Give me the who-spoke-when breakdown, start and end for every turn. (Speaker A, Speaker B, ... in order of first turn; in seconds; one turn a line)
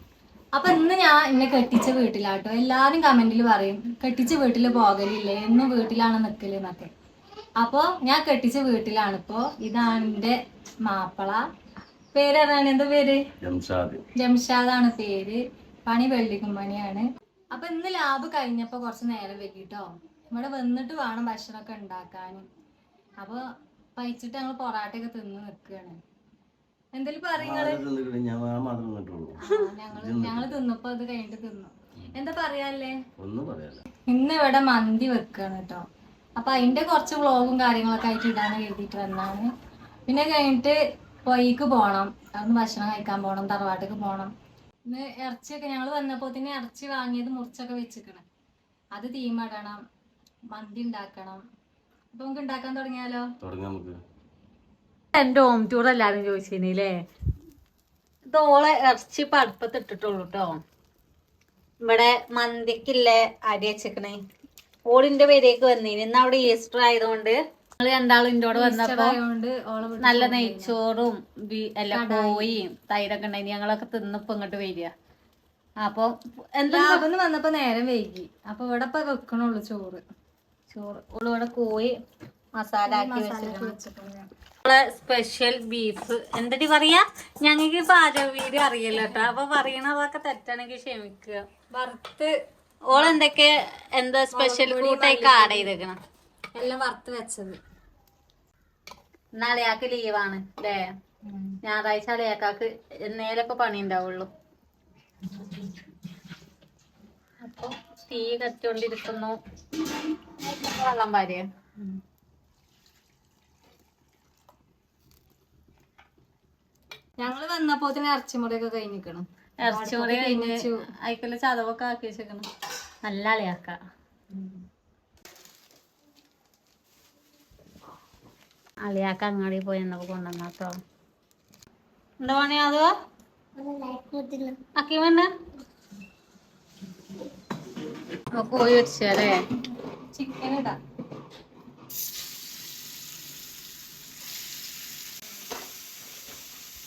Speaker A: 0.5-6.9
Speaker A: 7.6-11.4
Speaker A: 12.1-13.2
Speaker B: 13.4-14.0
Speaker A: 14.2-22.4
Speaker A: 23.9-26.0
Speaker A: 26.9-27.8
Speaker B: 27.4-29.4
Speaker A: 29.4-33.0
Speaker B: 29.9-30.5
Speaker B: 33.2-33.9
Speaker A: 34.1-35.8
Speaker A: 36.4-39.5
Speaker A: 40.1-44.3
Speaker A: 44.8-48.2
Speaker A: 48.9-49.8
Speaker A: 50.5-51.4
Speaker A: 52.1-53.2
Speaker B: 53.4-54.0
Speaker C: 55.1-56.9
Speaker C: 58.3-60.5
Speaker C: 61.8-64.2
Speaker C: 64.9-69.2
Speaker A: 68.5-70.7
Speaker C: 70.0-74.9
Speaker A: 71.9-72.5
Speaker C: 75.8-77.0
Speaker A: 76.7-80.0
Speaker C: 80.7-81.9
Speaker C: 82.6-83.7
Speaker A: 82.9-84.3
Speaker C: 84.7-91.4
Speaker A: 91.7-92.3
Speaker C: 92.9-96.0
Speaker A: 94.3-95.7
Speaker A: 96.5-97.6
Speaker C: 99.4-100.8
Speaker A: 101.2-101.6
Speaker C: 101.6-104.3
Speaker A: 107.4-107.7
Speaker C: 108.1-109.3
Speaker C: 110.4-111.4
Speaker A: 117.2-120.8
Speaker C: 119.6-120.5
Speaker C: 121.0-122.5
Speaker C: 123.0-123.8
Speaker A: 124.3-124.6
Speaker C: 128.8-130.7
Speaker C: 132.2-132.9
Speaker A: 133.6-134.5
Speaker C: 134.7-135.3
Speaker C: 138.3-139.4
Speaker A: 140.1-140.8